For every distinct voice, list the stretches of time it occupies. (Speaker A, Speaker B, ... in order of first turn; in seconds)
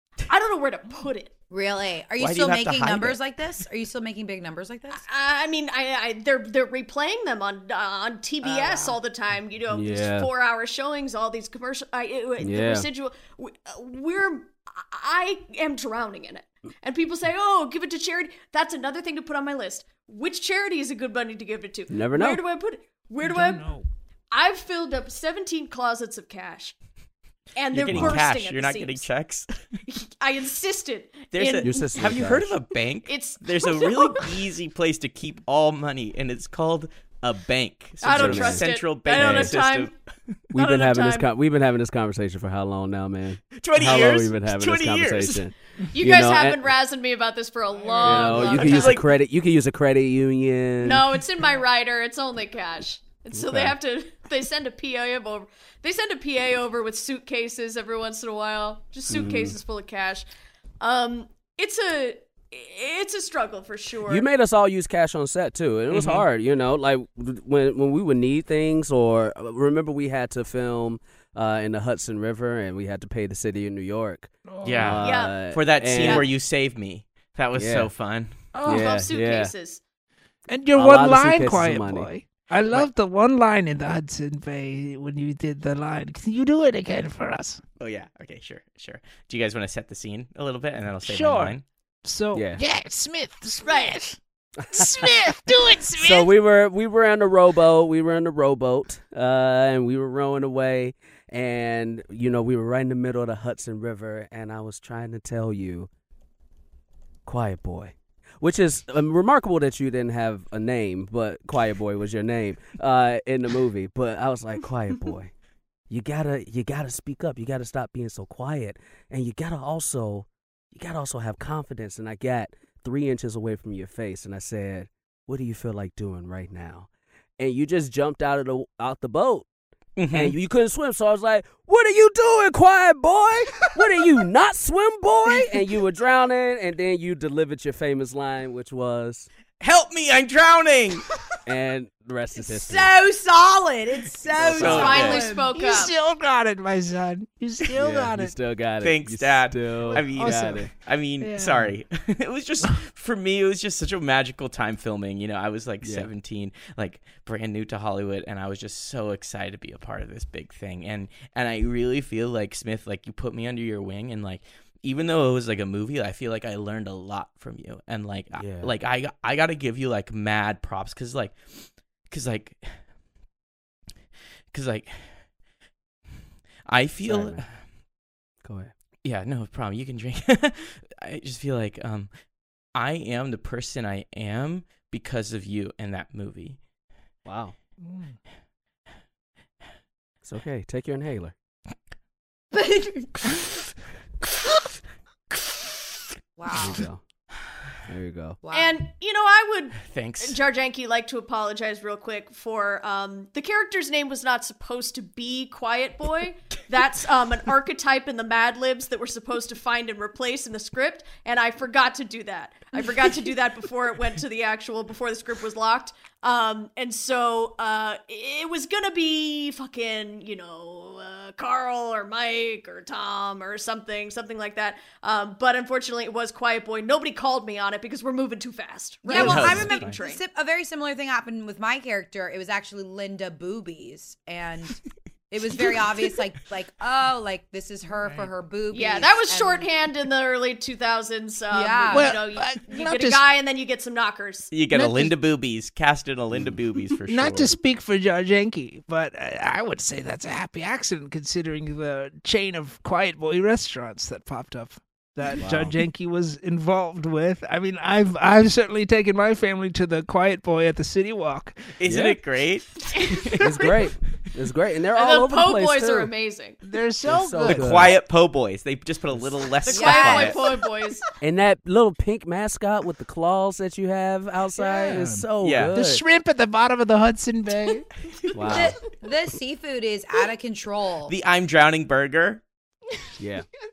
Speaker A: 0.3-1.3, 4.9-23.7, 24.3-26.7, 27.6-29.1, 29.9-31.9, 33.0-34.3, 38.0-39.9, 40.5-41.3, 45.9-49.0, 50.8-60.2, 60.8-64.2, 75.0-75.4, 76.0-76.3, 78.6-79.8, 93.6-93.9, 144.6-145.9, 198.5-230.2, 238.7-244.5, 264.9-266.6, 269.7-271.0
Speaker B: 1.5-5.0, 8.4-9.0, 142.4-145.5, 192.5-193.1, 196.4-196.8, 198.4-198.8, 229.1-234.8, 235.3-239.7, 241.5-242.2, 269.7-270.5, 278.4-281.1
Speaker C: 2.2-3.2, 27.7-29.5, 31.3-39.9, 43.6-45.5, 48.3-49.1, 65.9-66.2, 74.6-78.3, 87.8-91.6, 129.9-130.3, 139.6-141.1, 144.6-145.2, 148.8-172.8, 174.5-175.3, 176.7-177.6, 179.0-182.1, 182.7-186.6, 199.8-200.4, 229.1-229.7, 244.5-247.6, 261.8-263.7, 267.4-270.4, 275.4-275.7, 281.1-282.4
Speaker D: 9.7-10.3, 12.4-12.9, 21.9-22.4, 27.9-28.2, 31.6-32.5, 38.1-39.6, 40.5-46.7, 48.0-51.1, 53.3-53.8, 59.1-59.6, 64.1-76.3, 77.5-77.9, 78.6-79.5, 80.7-82.1, 92.3-92.6, 95.9-105.9, 107.2-115.3, 115.9-126.9, 127.4-129.5, 130.1-139.3, 141.4-142.9, 144.3-145.2, 147.7-150.7, 155.8-156.1, 168.3-168.7, 177.0-177.4, 178.4-178.7, 187.2-187.5, 190.2-191.3, 196.5-197.0, 197.9-198.4, 255.3-255.8, 261.9-262.2, 263.4-266.1, 267.0-267.9, 271.2-276.0, 278.3-278.8, 283.2-283.4
Speaker E: 23.2-23.8, 47.8-48.6, 74.5-75.0, 78.5-78.8, 80.5-87.6, 91.0-96.3, 145.5-148.3, 149.8-150.7, 151.2-151.7, 187.8-188.2, 241.9-243.2, 247.1-261.7, 266.6-267.9, 274.6-277.9